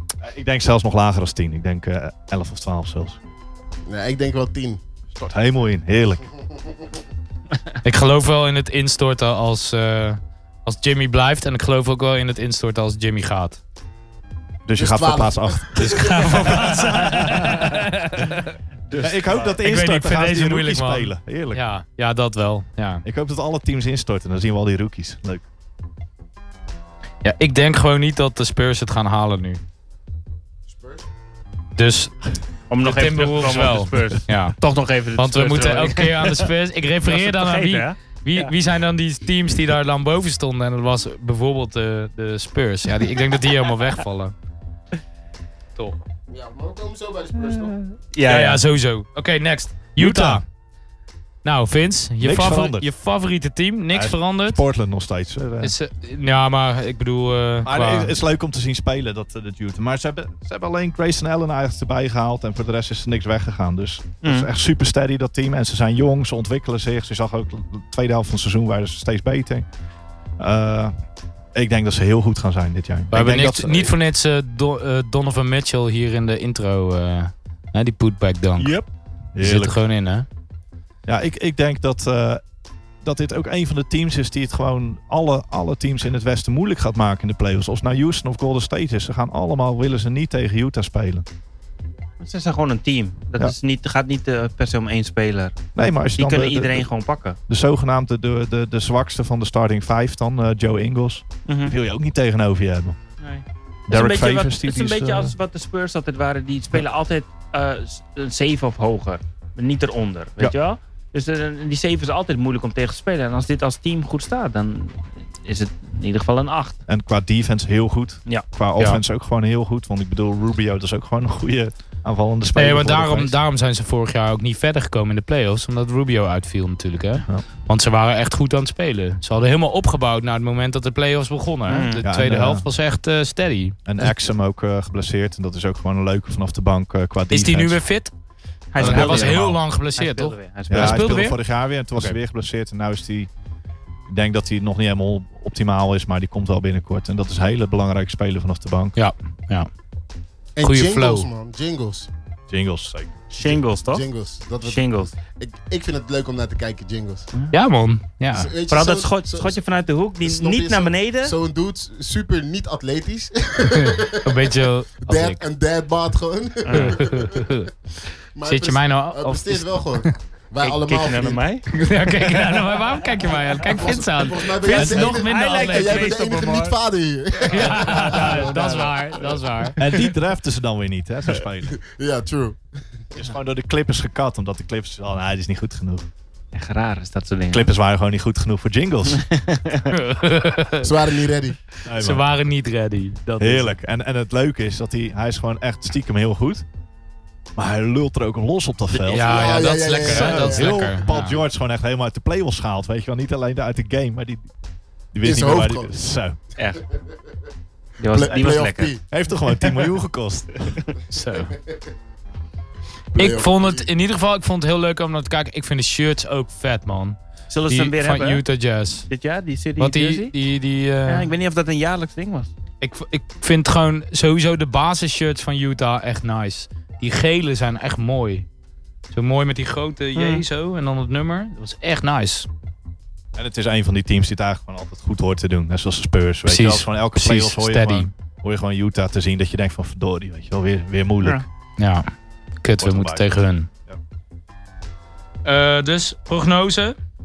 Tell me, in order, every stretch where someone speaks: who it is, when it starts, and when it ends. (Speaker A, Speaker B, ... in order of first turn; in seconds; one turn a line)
Speaker A: 0.2-3.2
Speaker B: 3.9-4.8
Speaker A: 5.2-6.2
Speaker C: 7.8-13.6
Speaker A: 14.7-16.2
Speaker B: 14.7-16.6
Speaker C: 15.8-18.5
Speaker D: 18.9-19.6
Speaker A: 19.0-21.6
Speaker C: 19.6-23.0
Speaker A: 23.0-25.4
Speaker C: 27.2-29.6
Speaker B: 30.7-31.1
Speaker C: 31.8-32.2
Speaker D: 32.7-36.5
Speaker C: 32.8-34.6
Speaker C: 35.2-44.3
Speaker D: 37.0-38.5
Speaker C: 45.8-46.0
Speaker B: 46.3-47.8
Speaker D: 47.4-48.6
Speaker C: 48.2-50.4
Speaker A: 50.0-50.4
Speaker C: 51.4-54.6
Speaker A: 52.2-52.9
Speaker A: 53.9-55.7
Speaker C: 55.6-58.1
Speaker A: 57.6-69.7
Speaker D: 64.2-64.5
Speaker A: 70.4-70.9
Speaker A: 71.5-73.9
Speaker C: 73.1-78.7
Speaker D: 78.6-78.9
Speaker A: 79.3-79.8
Speaker C: 79.4-80.3
Speaker A: 81.1-82.4
Speaker A: 83.0-91.3
Speaker D: 92.2-97.4
Speaker A: 95.8-96.9
Speaker A: 97.5-103.0
Speaker D: 101.5-101.8
Speaker D: 103.2-116.8
Speaker A: 103.9-105.3
Speaker A: 116.9-123.3
Speaker C: 122.6-133.8
Speaker D: 131.7-132.0
Speaker A: 132.0-132.7
Speaker A: 133.8-137.8
Speaker C: 137.3-138.1
Speaker D: 138.7-141.1
Speaker A: 138.8-139.5
Speaker C: 138.8-141.4
Speaker A: 140.7-143.3
Speaker A: 144.1-149.0
Speaker C: 149.0-149.7
Speaker B: 150.6-152.1
Speaker C: 150.6-151.3
Speaker A: 152.5-153.6
Speaker D: 153.3-154.1
Speaker B: 153.9-157.3
Speaker D: 154.6-155.1
Speaker C: 157.5-158.5
Speaker B: 158.3-159.6
Speaker D: 158.7-161.3
Speaker B: 160.2-164.5
Speaker C: 163.7-165.4
Speaker B: 165.0-167.6
Speaker D: 166.7-167.0
Speaker C: 166.7-167.7
Speaker B: 168.3-171.4
Speaker C: 168.4-170.2
Speaker D: 170.6-171.7
Speaker C: 171.7-176.2
Speaker B: 173.7-178.9
Speaker A: 174.7-175.2
Speaker D: 175.0-176.8
Speaker D: 177.4-179.4
Speaker C: 177.5-179.8
Speaker A: 179.8-181.8
Speaker B: 181.8-182.7
Speaker A: 183.2-186.1
Speaker D: 186.5-187.7
Speaker A: 187.5-189.3
Speaker D: 189.1-189.9
Speaker C: 189.9-190.9
Speaker B: 190.8-191.6
Speaker A: 191.8-192.2
Speaker C: 192.0-193.8
Speaker A: 193.4-196.6
Speaker A: 197.6-204.5
Speaker B: 199.1-200.9
Speaker C: 199.1-201.4
Speaker A: 205.1-206.4
Speaker B: 205.2-205.9
Speaker D: 206.6-206.8
Speaker D: 208.0-208.9
Speaker B: 208.0-209.0
Speaker A: 209.1-210.8
Speaker C: 211.1-211.5
Speaker B: 213.1-213.9
Speaker C: 213.2-217.2
Speaker D: 217.5-218.4
Speaker C: 217.7-219.1
Speaker D: 219.1-220.3
Speaker C: 219.8-221.3
Speaker D: 221.1-222.5
Speaker C: 222.8-228.5
Speaker C: 229.1-232.5
Speaker D: 230.2-230.4
Speaker A: 233.3-241.4
Speaker C: 236.5-238.1
Speaker C: 241.8-242.1
Speaker C: 242.6-243.7
Speaker A: 242.8-243.4
Speaker C: 245.4-247.0